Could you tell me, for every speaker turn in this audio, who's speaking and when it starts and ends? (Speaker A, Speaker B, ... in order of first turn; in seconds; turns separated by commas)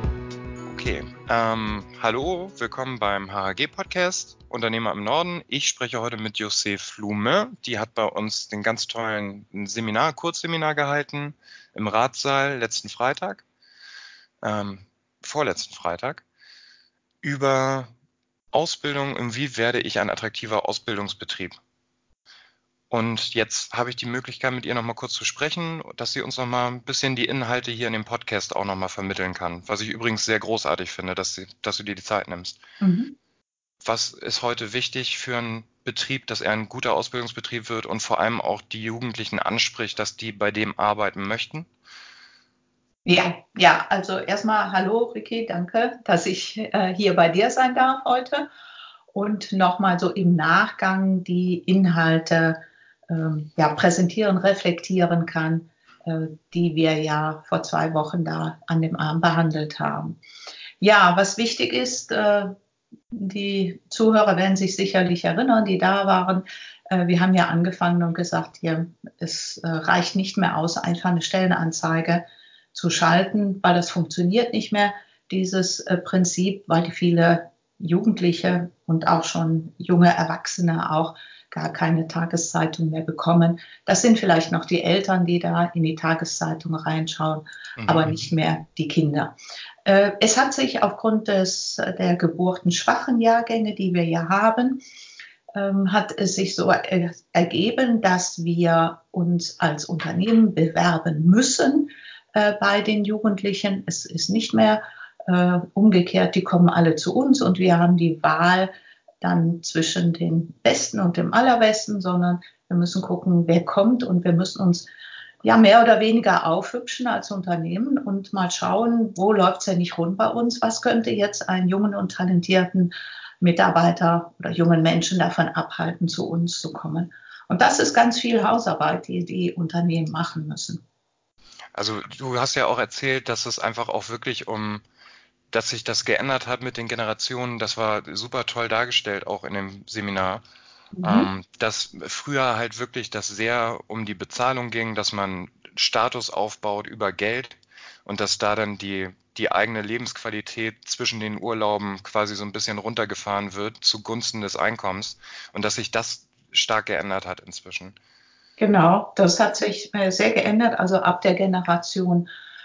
Speaker A: 0.7-13.4, Speaker A: 14.4-16.2, Speaker A: 17.2-17.9, Speaker A: 18.5-21.6, Speaker A: 22.9-32.6, Speaker B: 32.8-33.1, Speaker A: 33.8-41.7, Speaker B: 43.0-48.5, Speaker B: 49.1-52.6, Speaker B: 53.1-60.2, Speaker B: 60.8-62.5, Speaker B: 63.1-94.8, Speaker A: 87.8-88.3, Speaker B: 95.5-108.7, Speaker B: 109.2-114.9, Speaker B: 115.4-130.8, Speaker A: 131.8-134.8, Speaker A: 135.5-140.4, Speaker B: 141.0-141.3, Speaker A: 141.0-158.0, Speaker B: 158.6-162.3